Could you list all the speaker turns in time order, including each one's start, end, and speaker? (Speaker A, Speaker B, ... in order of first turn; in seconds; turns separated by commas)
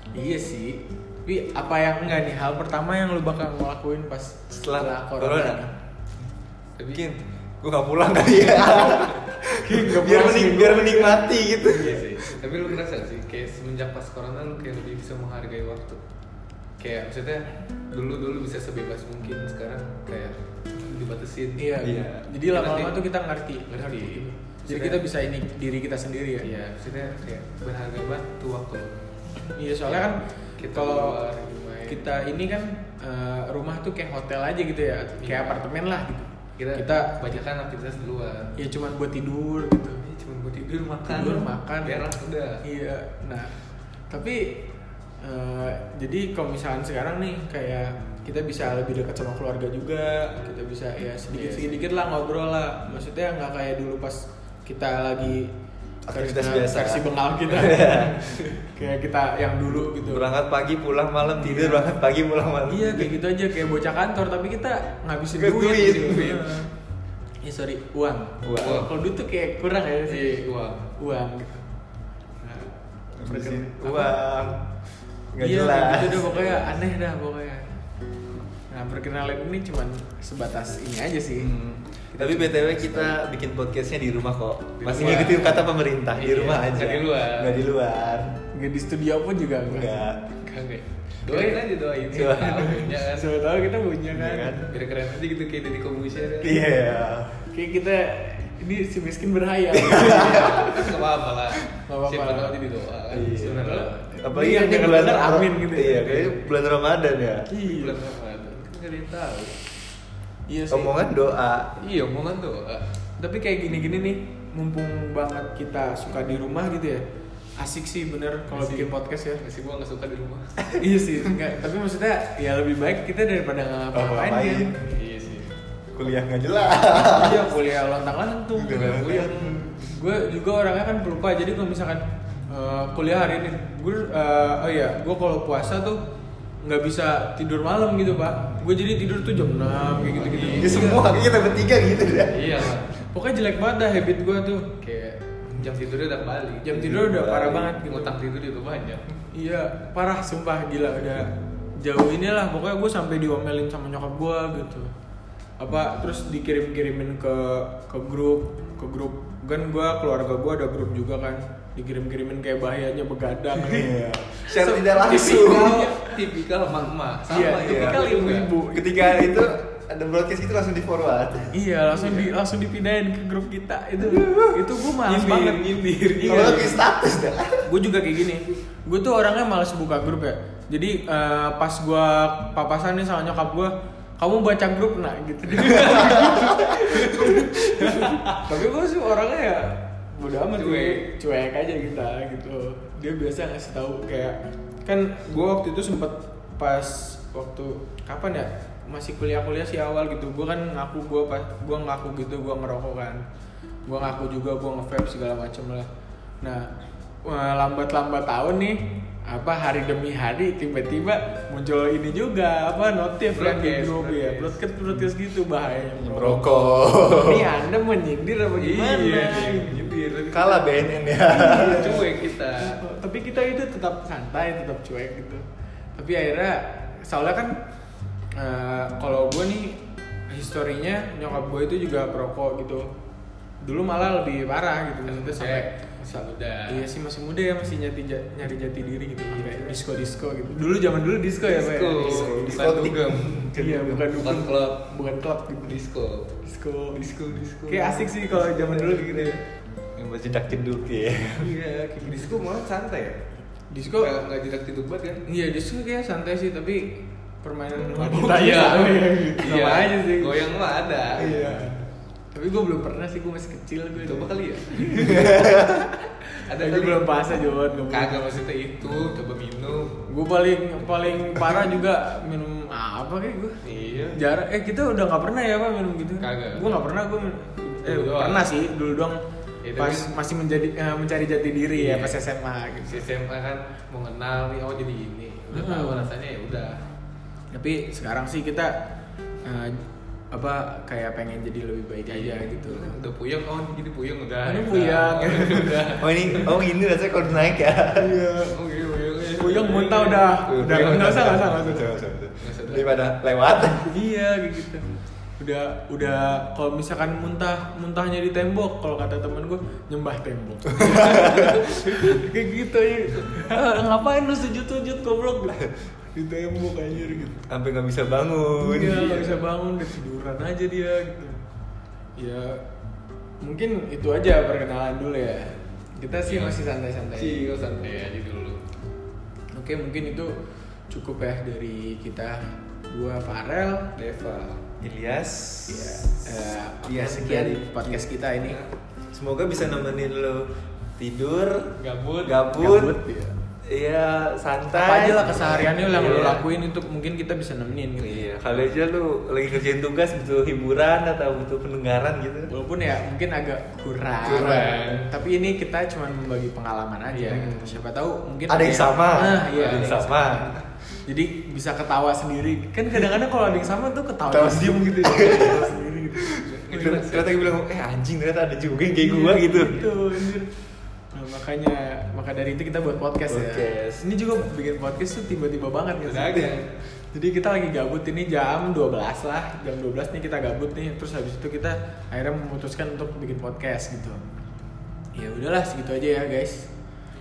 Speaker A: 0.1-5.8, Speaker B: 4.5-5.7, Speaker C: 6.8-7.1, Speaker B: 6.9-12.4, Speaker C: 8.6-9.2, Speaker A: 9.5-11.5, Speaker C: 11.7-16.0, Speaker C: 16.8-21.8, Speaker A: 21.6-26.5, Speaker B: 21.8-22.2, Speaker C: 22.5-23.0, Speaker C: 23.7-25.0, Speaker C: 26.4-29.0, Speaker A: 29.5-31.2, Speaker C: 29.9-32.0, Speaker A: 31.9-37.2, Speaker C: 35.2-35.6, Speaker C: 36.6-38.5, Speaker A: 38.6-40.0, Speaker C: 40.0-42.6, Speaker A: 41.1-42.1, Speaker A: 42.6-43.5, Speaker A: 44.1-44.7, Speaker A: 45.2-55.5, Speaker C: 51.3-51.8, Speaker B: 56.1-58.5, Speaker A: 56.1-60.3, Speaker B: 60.0-63.1, Speaker A: 61.4-62.0, Speaker A: 62.7-66.7, Speaker B: 65.4-66.5, Speaker C: 65.7-66.5, Speaker A: 67.4-70.4, Speaker B: 68.4-68.9, Speaker C: 68.6-68.9, Speaker C: 70.1-70.9, Speaker A: 71.0-71.7, Speaker A: 72.4-74.2, Speaker B: 73.2-74.6, Speaker B: 75.3-76.7, Speaker A: 75.4-77.7, Speaker A: 78.7-81.5, Speaker B: 81.4-88.3, Speaker A: 82.1-83.2, Speaker C: 84.8-87.7, Speaker A: 84.9-85.6, Speaker A: 88.5-90.1, Speaker B: 89.7-90.2, Speaker C: 90.4-93.3, Speaker A: 91.3-91.6, Speaker B: 92.1-92.8, Speaker A: 92.2-94.7, Speaker B: 94.1-94.7, Speaker C: 94.7-96.6, Speaker B: 96.4-97.5, Speaker A: 97.5-100.9, Speaker B: 99.7-100.9, Speaker C: 100.0-104.0, Speaker A: 101.9-102.6, Speaker B: 103.1-107.5, Speaker A: 103.4-106.5, Speaker A: 107.5-108.0, Speaker C: 107.5-109.5, Speaker A: 110.5-111.0, Speaker B: 110.7-111.7, Speaker C: 111.8-112.9, Speaker A: 113.2-117.0, Speaker A: 117.6-119.4, Speaker C: 118.5-120.6, Speaker A: 120.8-124.8, Speaker B: 123.9-124.9, Speaker C: 124.9-125.5, Speaker B: 125.9-127.5, Speaker A: 126.9-136.0, Speaker B: 128.6-129.9, Speaker C: 128.7-129.6, Speaker A: 136.6-141.2, Speaker C: 140.2-140.9, Speaker B: 140.6-142.6, Speaker C: 142.3-142.9, Speaker A: 143.1-144.8, Speaker C: 144.8-146.9, Speaker A: 146.6-148.2, Speaker B: 146.7-147.8, Speaker C: 147.8-149.1, Speaker A: 149.3-154.9, Speaker A: 155.6-166.2, Speaker B: 163.6-165.9, Speaker C: 164.6-168.6, Speaker A: 167.3-169.5, Speaker B: 167.3-168.1, Speaker B: 168.7-171.7, Speaker A: 171.5-176.8, Speaker C: 172.0-172.3, Speaker B: 174.0-177.7, Speaker C: 175.1-176.8, Speaker A: 177.6-203.2, Speaker C: 185.5-188.1, Speaker B: 186.0-186.8, Speaker C: 190.5-191.0, Speaker A: 203.9-205.9, Speaker A: 206.4-206.7, Speaker A: 207.2-219.8, Speaker C: 213.3-214.6, Speaker B: 216.0-217.6, Speaker C: 218.6-220.9, Speaker B: 220.3-222.1, Speaker A: 221.2-225.4, Speaker C: 221.4-222.8, Speaker A: 226.0-227.6, Speaker A: 228.3-232.9, Speaker A: 233.6-242.9, Speaker C: 235.1-236.9, Speaker C: 239.2-239.8, Speaker C: 241.4-243.6, Speaker B: 242.0-244.2, Speaker A: 243.5-245.8, Speaker C: 244.2-244.8, Speaker C: 245.6-246.3, Speaker A: 246.4-247.1, Speaker C: 246.9-249.3, Speaker A: 247.7-249.4, Speaker B: 250.0-251.5, Speaker C: 251.4-253.2, Speaker A: 253.7-254.2, Speaker C: 253.9-255.2, Speaker A: 255.3-260.4, Speaker C: 258.0-261.6, Speaker A: 261.2-268.3, Speaker C: 264.0-265.4, Speaker B: 265.0-265.9, Speaker C: 266.5-267.2, Speaker C: 267.9-270.0, Speaker A: 270.1-273.6, Speaker C: 273.6-274.2, Speaker A: 274.1-279.2, Speaker C: 276.2-276.8, Speaker C: 277.8-278.5, Speaker C: 279.6-280.2, Speaker A: 279.8-283.0, Speaker C: 281.8-282.2, Speaker C: 282.9-286.8, Speaker A: 285.5-286.1, Speaker A: 287.5-288.9, Speaker A: 289.4-292.9, Speaker C: 292.1-296.6, Speaker A: 294.5-296.5, Speaker B: 296.0-298.2, Speaker A: 297.9-298.6, Speaker C: 298.5-301.1, Speaker A: 299.4-301.9, Speaker B: 300.5-303.9, Speaker C: 302.4-303.0, Speaker A: 303.9-304.9, Speaker A: 305.4-317.4, Speaker B: 310.8-311.7, Speaker B: 317.5-319.1, Speaker A: 318.6-321.4, Speaker C: 318.9-319.4, Speaker A: 322.2-322.6, Speaker A: 323.4-327.5, Speaker C: 326.2-326.6, Speaker C: 327.2-328.6, Speaker A: 329.6-330.4, Speaker A: 330.9-333.9, Speaker C: 333.9-334.6, Speaker B: 334.8-343.0, Speaker A: 335.7-338.6, Speaker C: 341.8-342.4, Speaker A: 342.6-343.4, Speaker B: 343.6-346.4, Speaker A: 344.7-348.4, Speaker C: 345.5-346.4, Speaker B: 348.0-352.5, Speaker A: 352.5-367.1, Speaker C: 354.2-355.1, Speaker C: 357.1-357.6, Speaker B: 357.5-357.8, Speaker B: 358.5-360.6, Speaker C: 359.5-360.0, Speaker B: 364.3-370.1, Speaker C: 366.4-367.5, Speaker A: 369.0-370.5, Speaker A: 371.1-376.6, Speaker B: 373.3-374.1, Speaker C: 376.0-376.7, Speaker A: 377.1-384.2, Speaker A: 385.1-386.7